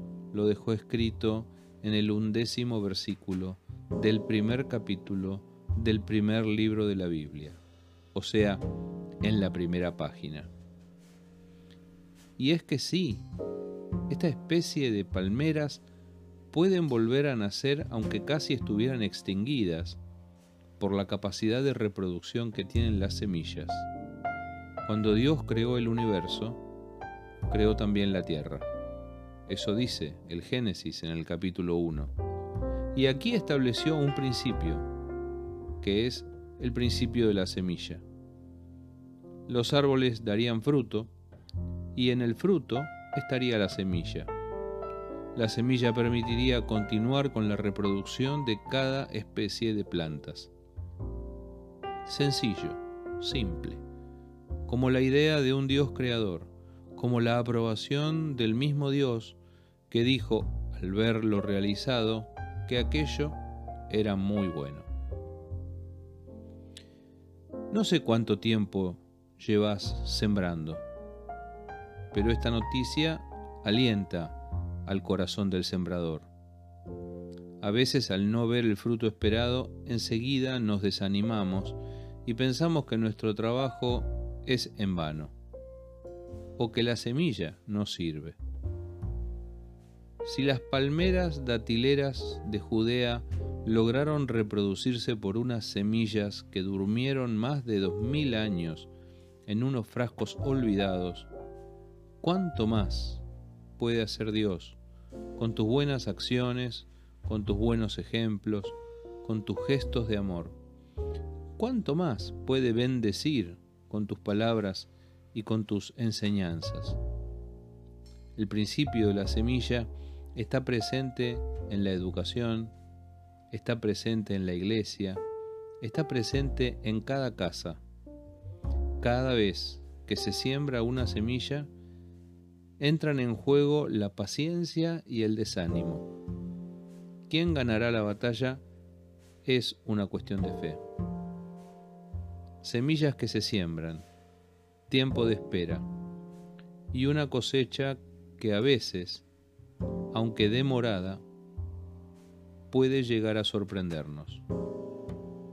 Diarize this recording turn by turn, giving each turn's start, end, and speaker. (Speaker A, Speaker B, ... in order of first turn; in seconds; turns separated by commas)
Speaker A: 0.3-7.6, Speaker A: 8.1-8.6, Speaker A: 9.2-10.5, Speaker A: 12.4-13.2, Speaker A: 14.1-15.8, Speaker A: 16.5-20.0, Speaker A: 20.8-23.9, Speaker A: 24.8-26.6, Speaker A: 27.5-28.7, Speaker A: 29.5-32.1, Speaker A: 32.9-34.9, Speaker A: 35.8-38.0, Speaker A: 39.5-41.1, Speaker A: 42.0-44.3, Speaker A: 45.3-50.5, Speaker A: 52.0-53.8, Speaker A: 54.7-59.4, Speaker A: 59.9-63.4, Speaker A: 63.9-64.9, Speaker A: 67.7-70.8, Speaker A: 72.1-76.3, Speaker A: 77.6-85.3, Speaker A: 86.6-88.4, Speaker A: 90.2-98.9, Speaker A: 99.5-101.3, Speaker A: 102.2-103.2, Speaker A: 103.8-104.8, Speaker A: 105.4-110.6, Speaker A: 111.6-117.0, Speaker A: 118.4-122.8, Speaker A: 123.5-125.2, Speaker A: 125.8-127.8, Speaker A: 129.0-131.7, Speaker A: 132.8-136.1, Speaker A: 137.3-138.6, Speaker A: 139.4-140.8, Speaker A: 142.6-144.1, Speaker A: 144.9-145.9, Speaker A: 146.9-149.3, Speaker A: 150.1-151.2, Speaker A: 152.7-154.4